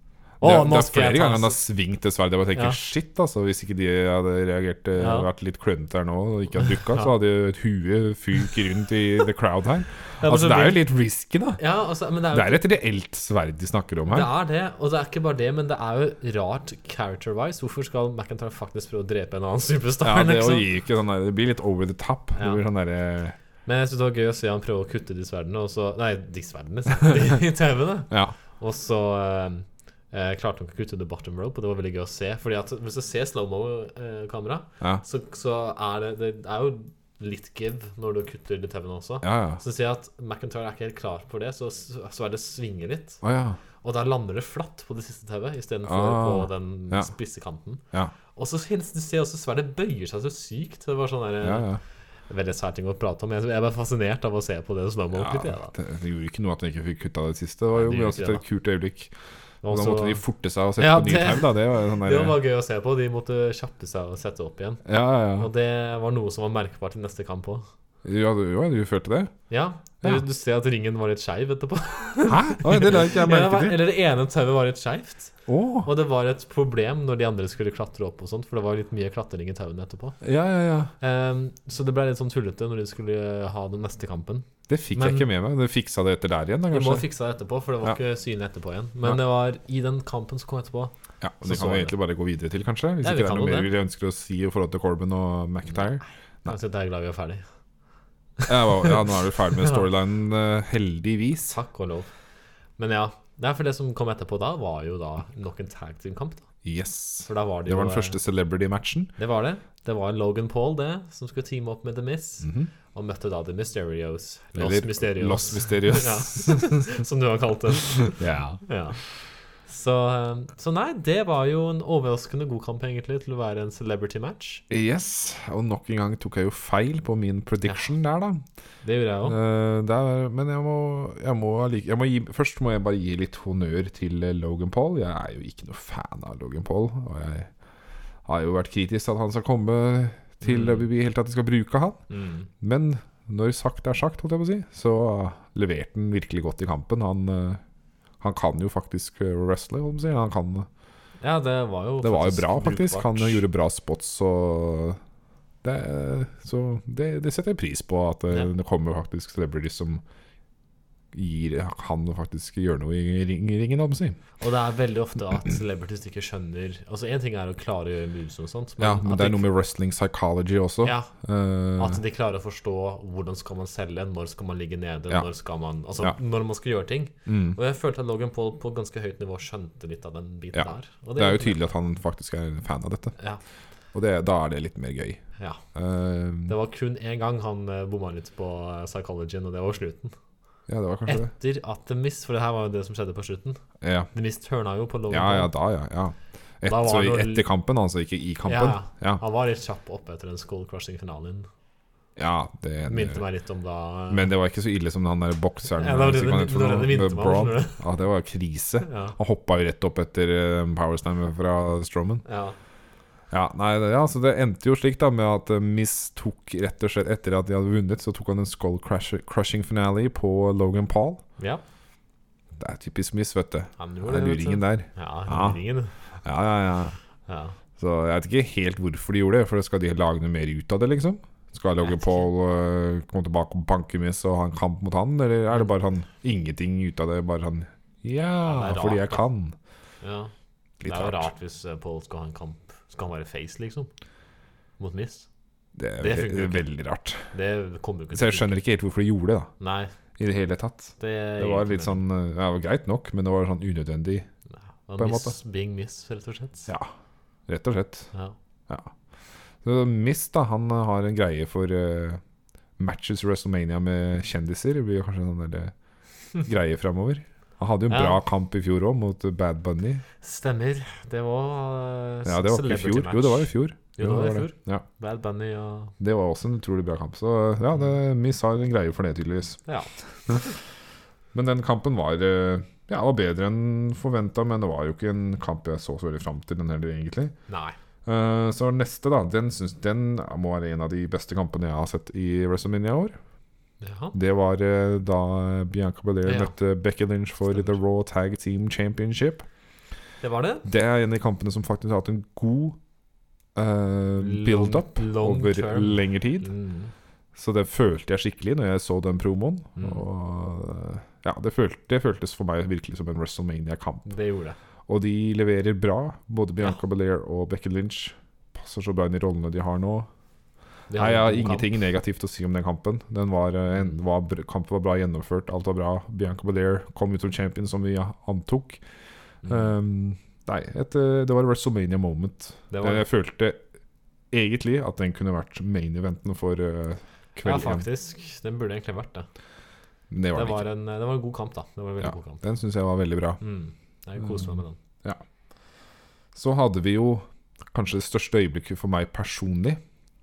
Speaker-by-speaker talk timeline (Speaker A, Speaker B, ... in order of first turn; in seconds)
Speaker A: 0.4-1.6, 2.5-2.8, 5.0-5.3, 10.2-10.8, 11.6-12.6, 14.1-20.7, 22.4-22.6, 23.6-43.2, 43.8-47.8, 48.4-51.7, 52.3-55.7, 57.7-58.4, 59.6-60.2, 60.8-67.7, 69.5-80.2, 81.0-85.3, 86.7-91.9, 93.0-93.7, 96.5-97.4, 98.4-99.8, 101.5-102.1, 102.8-106.5, 107.3-108.2, 109.2-119.0, 119.7-124.6, 128.8-129.4, 140.4-140.9, 142.1-142.5, 151.2-153.4, 164.4-169.5, 170.8-171.1, 171.8-181.7, 186.5-190.1, 191.1-193.6, 194.1-195.5, 196.6-197.4, 198.4-201.5, 202.9-204.3, 205.8-207.8, 208.8-209.2, 212.2-212.6, 223.8-225.9, 227.3-227.6, 231.8-232.3, 238.4-239.2, 240.0-240.3, 240.8-243.9, 244.8-245.3, 246.0-246.6, 247.3-248.5, 249.6-249.9, 251.0-252.0, 254.9-256.7, 267.9-268.2, 270.2-275.9, 279.7-280.5, 287.5-287.8, 293.8-294.1, 296.2-296.5, 300.2-300.6, 304.2-306.9, 309.8-310.0, 314.1-314.6, 320.9-321.7, 329.4-329.7, 332.7-333.0, 337.4-339.3, 340.3-342.4, 343.4-344.8
Speaker B: 0.4-11.6, 12.3-14.3, 20.0-23.4, 28.1-28.4, 39.2-39.6, 43.2-43.6, 45.9-47.1, 51.4-51.8, 55.1-59.1, 59.7-62.4, 64.8-65.5, 68.0-69.3, 72.2-73.8, 75.5-75.9, 80.2-80.9, 84.7-87.0, 91.2-96.5, 98.5-101.5, 106.6-109.1, 112.4-112.7, 114.5-116.8, 118.1-118.6, 124.7-128.4, 129.2-137.5, 138.2-142.0, 142.6-147.6, 148.2-150.7, 152.0-155.0, 155.6-160.0, 161.1-164.2, 168.8-172.0, 177.2-177.6, 180.5-183.1, 183.9-185.2, 185.7-186.5, 190.7-191.3, 193.8-194.1, 195.1-199.2, 202.2-203.2, 204.1-212.2, 213.3-221.2, 222.6-225.6, 226.2-226.9, 227.8-239.5, 240.8-241.3, 245.8-247.3, 248.1-249.5, 250.2-254.2, 255.0-255.3, 257.5-258.1, 259.6-262.2, 262.8-265.7, 266.4-270.0, 272.2-274.8, 276.0-279.6, 281.3-287.3, 288.1-293.1, 294.1-299.4, 300.6-302.8, 303.5-306.5, 307.4-314.1, 314.9-320.1, 320.9-328.8, 329.4-333.6, 334.3-337.9, 340.1-340.6, 342.0-343.4, 346.3-349.8